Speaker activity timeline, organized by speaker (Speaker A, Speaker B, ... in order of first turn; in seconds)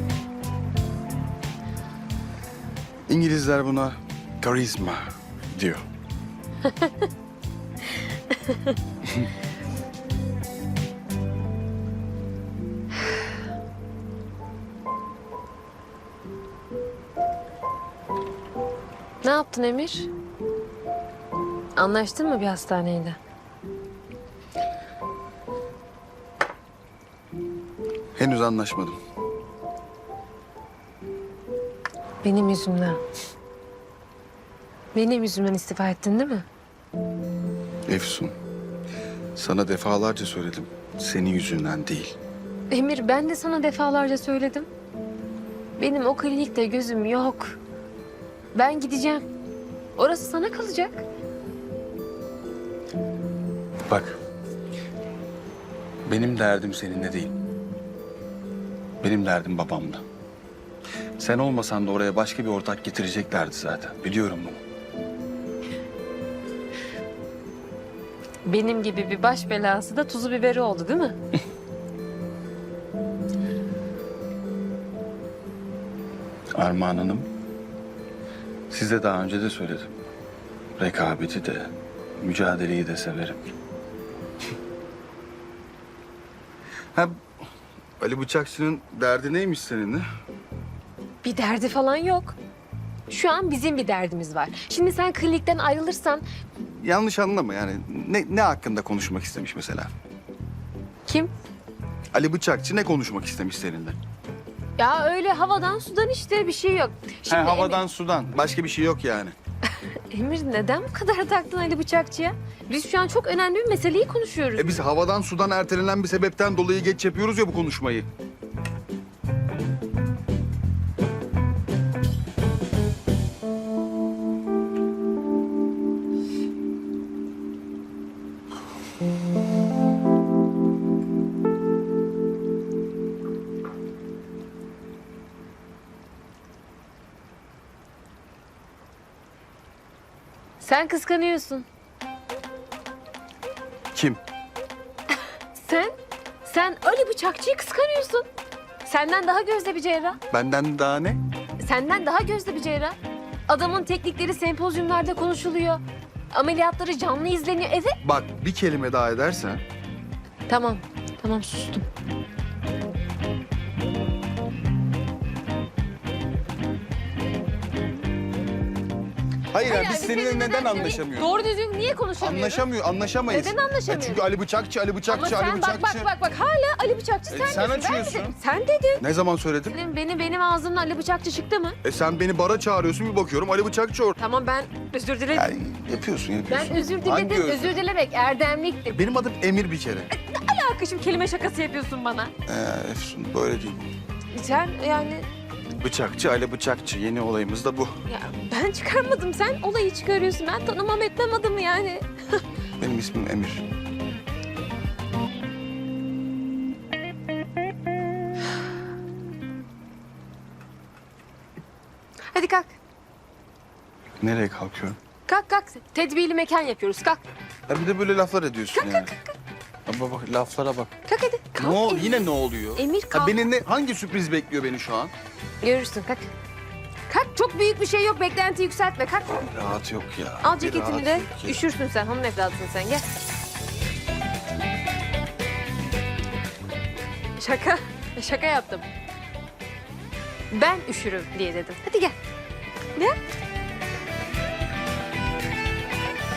Speaker A: 3.1-5.8, 28.1-29.0, 37.9-38.3, 39.3-42.1, 53.9-54.2, 56.0-57.4, 59.0-60.0, 61.2-64.6, 76.5-77.3, 78.7-79.9, 80.8-83.4, 88.0-90.0, 96.6-99.9, 102.1-104.0, 107.3-109.3, 114.5-118.1, 143.9-144.2, 150.3-151.2, 158.0-159.6, 169.5-171.4, 172.2-176.1, 177.3-178.4, 179.0-179.8, 181.8-184.1, 185.3-187.8, 188.9-190.1, 192.4-193.9, 195.8-197.9, 202.8-203.7, 214.2-215.0, 217.7-219.1, 219.9-220.9, 221.6-225.1, 229.4-231.6
Speaker B: 8.3-8.7, 19.2-20.1, 21.8-23.2, 32.2-33.0, 34.9-36.5, 42.7-44.7, 45.8-47.6, 48.5-49.2, 50.0-51.0, 68.5-71.2, 91.2-92.4, 93.1-96.2, 101.0-101.3, 104.8-107.8, 109.9-114.7, 140.6-141.7, 145.6-145.9, 146.4-148.3, 148.8-150.2, 151.6-152.9, 153.5-158.0, 160.5-161.8, 169.6-172.7, 173.3-174.2, 175.1-179.0, 179.7-181.8, 184.2-185.5, 186.5-189.0, 190.1-192.3, 194.3-195.3, 198.1-202.4, 212.3-212.7, 215.2-217.2, 218.7-219.4, 221.1-222.2, 222.8-223.4, 225.6-226.3, 227.1-229.4, 230.4-233.1, 237.4-238.9, 240.5-242.2